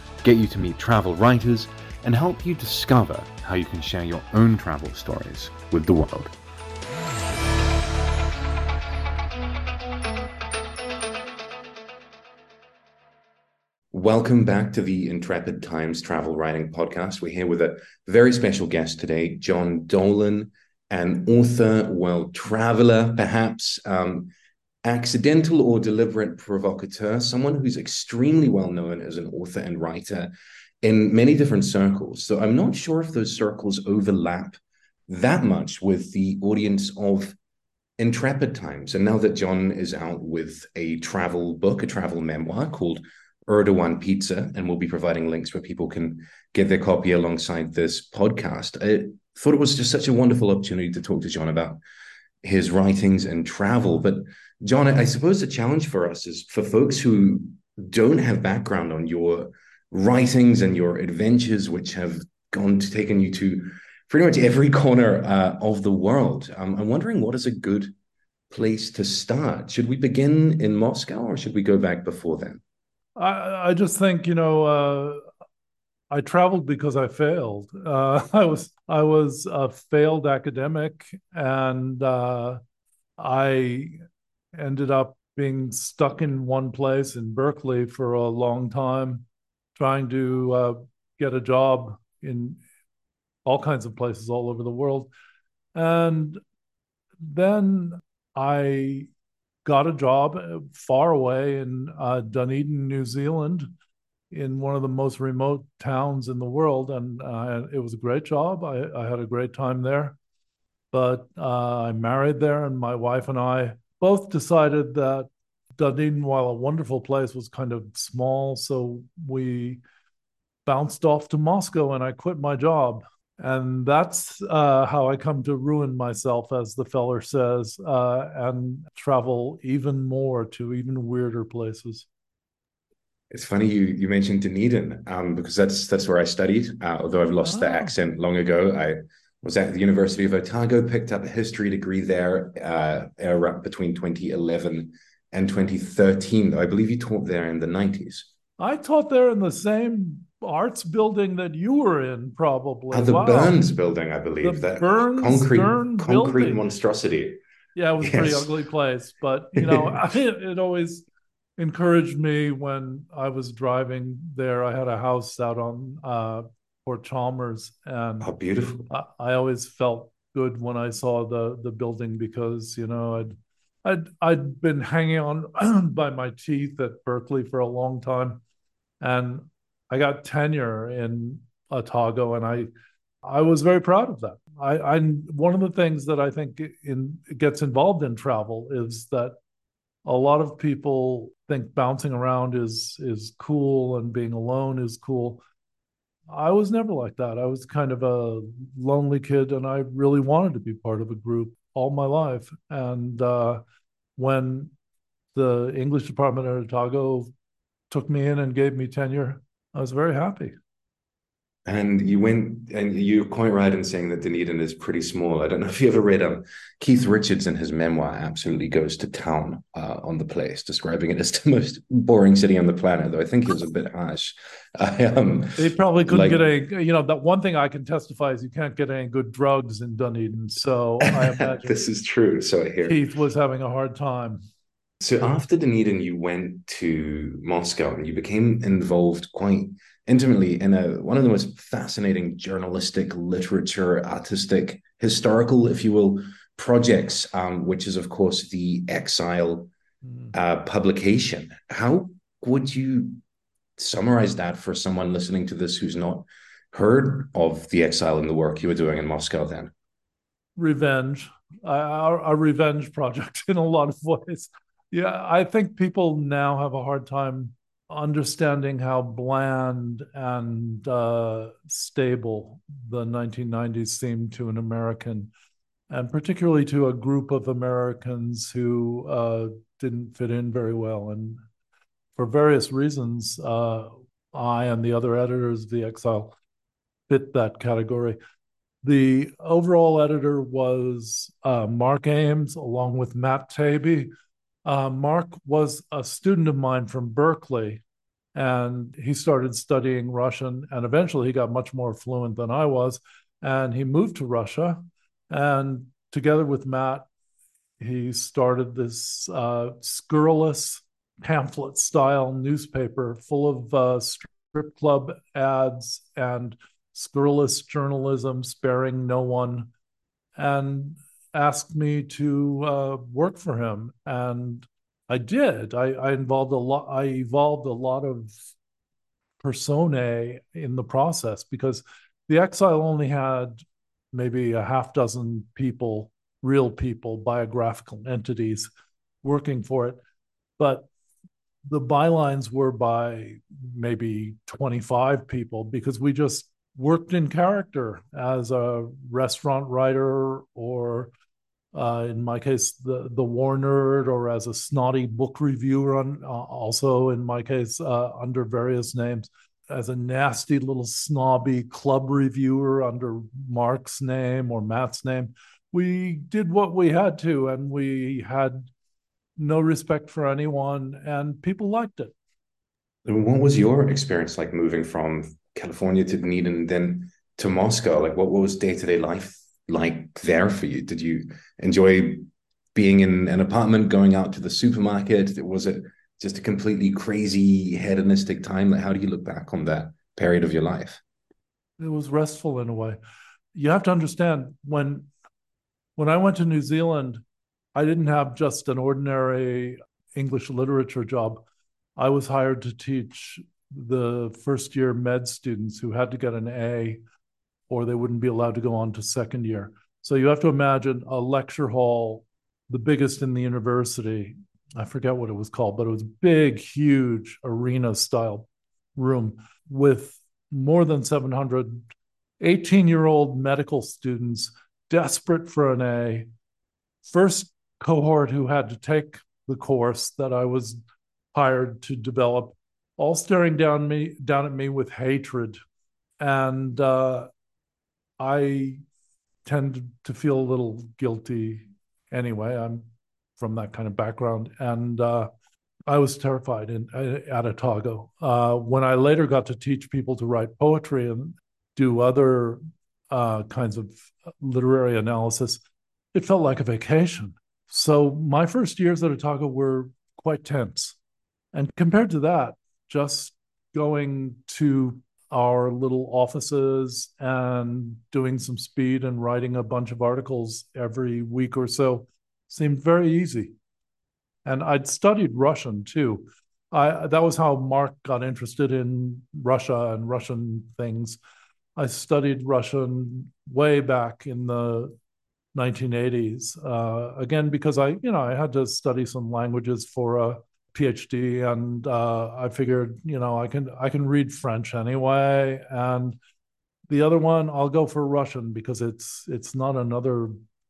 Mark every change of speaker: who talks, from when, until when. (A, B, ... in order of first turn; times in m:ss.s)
0:00.2-0:06.3 A
0:13.9-0:24.3 A
0:24.8-0:30.3 A
0:30.8-0:34.6 A
0:35.1-0:37.4 A
0:38.0-0:51.8 A
0:52.4-1:07.9 A
1:08.5-1:12.6 A
1:13.2-1:15.2 B
1:16.1-1:22.6 B
1:23.2-1:24.0 B
1:24.6-1:32.6 B
1:33.4-1:35.1 B
1:35.7-1:36.4 B
1:37.2-1:39.1 B
1:39.6-1:43.7 B
1:44.3-1:50.2 B
1:50.9-1:59.8 B
2:00.6-2:12.1 B
2:13.3-2:28.3 A
2:17.4-2:17.9 B
2:28.6-2:33.6 B
2:32.9-2:37.4 A
2:34.4-2:36.6 B
2:37.7-2:41.0 B
2:38.0-2:38.5 A
2:39.5-2:40.0 A
2:41.6-2:48.3 B
2:48.2-2:48.9 A
2:48.9-2:58.4 B
2:59.0-3:02.7 B
3:03.2-3:09.4 B
3:10.0-3:15.4 B
3:16.3-3:23.6 B
3:24.2-3:24.7 B
3:25.3-3:27.3 B
3:27.9-3:30.5 B
3:31.6-3:46.4 A
3:45.6-3:51.8 B
3:51.0-3:53.0 A
3:52.8-3:54.4 B
3:55.0-4:09.7 A
4:10.3-4:13.2 A
4:13.8-4:19.7 A
4:20.6-4:35.3 B
4:35.9-4:41.4 B
4:42.2-4:46.3 B
4:47.1-4:48.2 B
4:48.8-4:54.1 B
4:54.6-4:57.8 B
4:58.3-5:07.1 B
5:07.8-5:19.7 B
5:20.4-5:28.4 B
5:29.4-5:38.7 B
5:39.2-5:40.0 B
5:40.6-5:40.9 B
5:41.7-5:51.1 B
5:51.7-6:08.7 B
6:09.4-6:12.1 B
6:13.0-6:31.0 A
6:31.8-6:33.0 B
6:33.5-6:35.1 B
6:36.0-6:37.2 B
6:37.7-6:41.4 B
6:42.0-6:47.0 B
6:47.7-7:01.8 B
7:02.4-7:06.3 B
7:07.0-7:10.8 B
7:11.3-7:15.6 B
7:16.2-7:17.3 B
7:18.2-7:18.8 B
7:19.4-7:22.8 B
7:23.4-7:25.3 B
7:25.9-7:32.6 B
7:33.1-7:35.6 B
7:36.1-7:41.0 B
7:41.5-7:53.5 B
7:54.4-8:01.2 B
8:01.8-8:04.9 B
8:05.5-8:16.2 B
8:16.9-8:20.3 B